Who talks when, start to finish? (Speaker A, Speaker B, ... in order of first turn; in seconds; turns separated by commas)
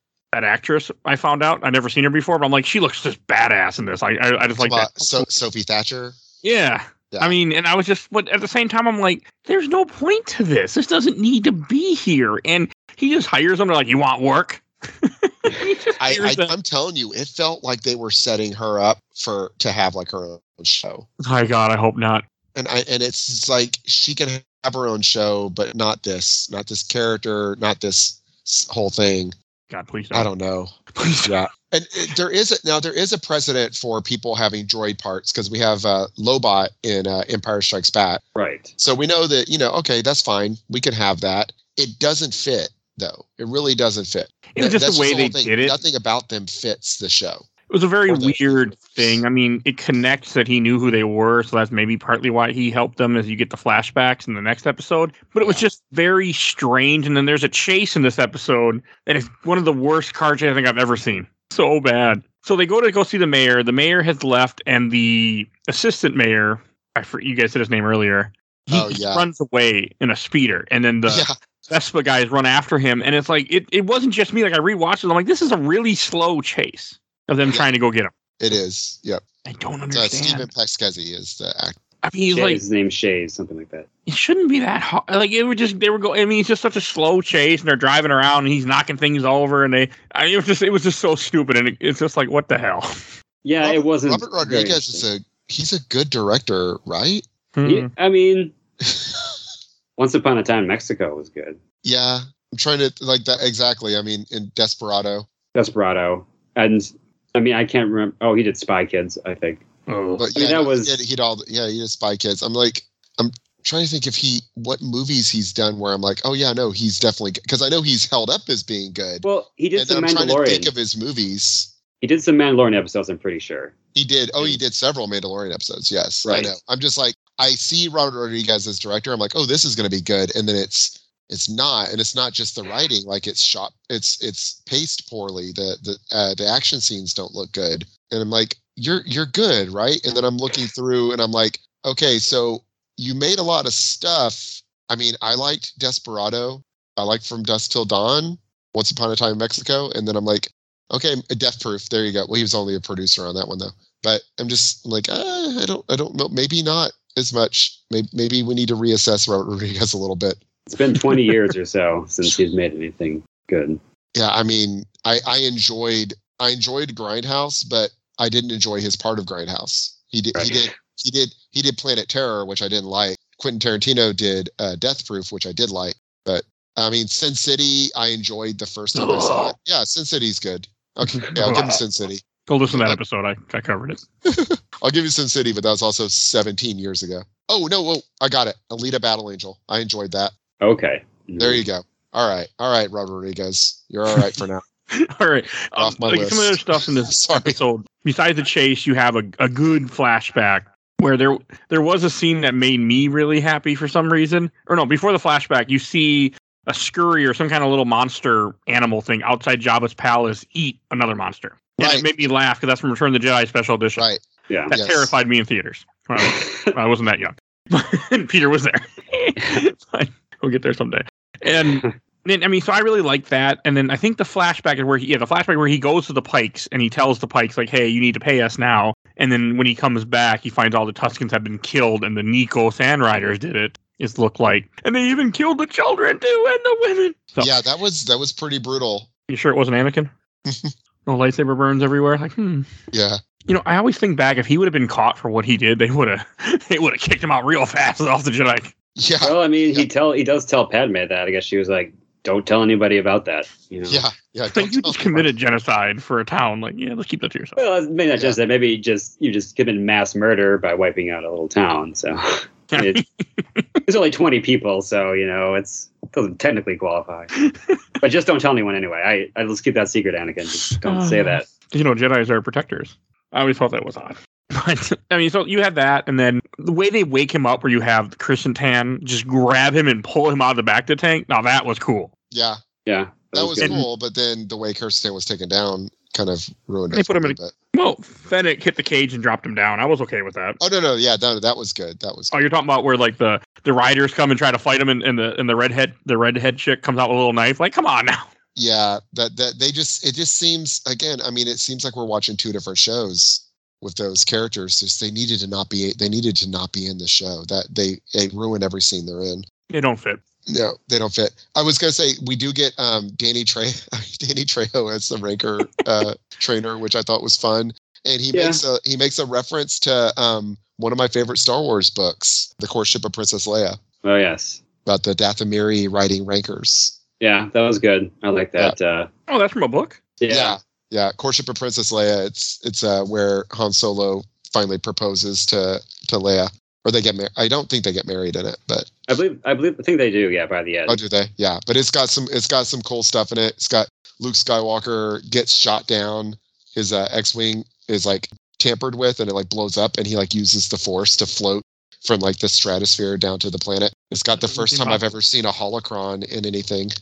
Speaker A: 0.3-5.3, Speaker B: 4.6-6.2, Speaker A: 6.4-16.5, Speaker B: 7.1-7.3, Speaker B: 16.0-21.1, Speaker A: 21.2-22.2, Speaker B: 22.5-29.3, Speaker A: 29.7-30.3, Speaker B: 30.1-38.2, Speaker A: 30.9-31.4, Speaker C: 38.4-38.7, Speaker B: 38.8-47.5, Speaker A: 44.5-45.8, Speaker A: 47.7-78.1, Speaker B: 48.1-49.2, Speaker B: 68.7-69.3, Speaker B: 71.1-71.3, Speaker B: 78.4-79.2, Speaker A: 79.4-80.5, Speaker B: 79.9-81.8, Speaker A: 82.0-82.6, Speaker C: 82.3-83.9, Speaker A: 84.1-93.0, Speaker C: 93.4-95.0, Speaker B: 93.6-97.2, Speaker A: 97.5-97.9, Speaker C: 97.6-98.5, Speaker B: 98.8-99.2, Speaker C: 100.0-101.6, Speaker B: 101.8-105.3, Speaker C: 105.5-109.6, Speaker A: 109.9-110.2, Speaker B: 110.2-121.7, Speaker C: 110.3-111.0, Speaker C: 119.2-120.7, Speaker C: 122.0-123.7, Speaker B: 123.9-160.4, Speaker C: 126.2-126.5, Speaker C: 160.7-163.8, Speaker B: 164.1-183.0, Speaker C: 170.3-170.7, Speaker A: 178.9-179.5, Speaker A: 181.0-181.8, Speaker A: 182.5-184.0, Speaker B: 184.2-190.3, Speaker C: 190.6-191.6, Speaker B: 191.4-194.6, Speaker A: 194.9-214.1, Speaker B: 195.8-197.6, Speaker B: 211.8-212.1, Speaker B: 214.0-215.1, Speaker A: 214.7-237.5, Speaker C: 216.2-216.7, Speaker B: 237.4-239.1, Speaker A: 239.3-240.1, Speaker B: 240.4-240.7, Speaker A: 241.1-242.7, Speaker B: 242.9-243.2, Speaker A: 243.5-248.7, Speaker B: 248.9-249.8, Speaker C: 249.2-254.0, Speaker B: 253.9-255.3, Speaker A: 254.5-257.6, Speaker C: 257.6-263.0, Speaker A: 262.7-263.6, Speaker C: 263.9-267.3, Speaker A: 267.4-267.8, Speaker C: 268.0-271.4, Speaker A: 270.7-282.1, Speaker B: 282.3-282.6, Speaker C: 282.9-283.8, Speaker B: 283.3-287.5, Speaker A: 286.9-290.6, Speaker B: 290.6-292.3, Speaker A: 292.3-298.3, Speaker B: 298.5-309.4, Speaker A: 309.7-310.2, Speaker B: 310.5-323.8, Speaker C: 318.3-318.6, Speaker C: 324.0-324.6, Speaker B: 324.9-326.9, Speaker C: 327.2-329.1, Speaker A: 329.3-330.0, Speaker C: 330.2-330.6, Speaker B: 330.3-338.9, Speaker C: 339.1-341.0, Speaker B: 340.9-356.9, Speaker A: 354.4-355.0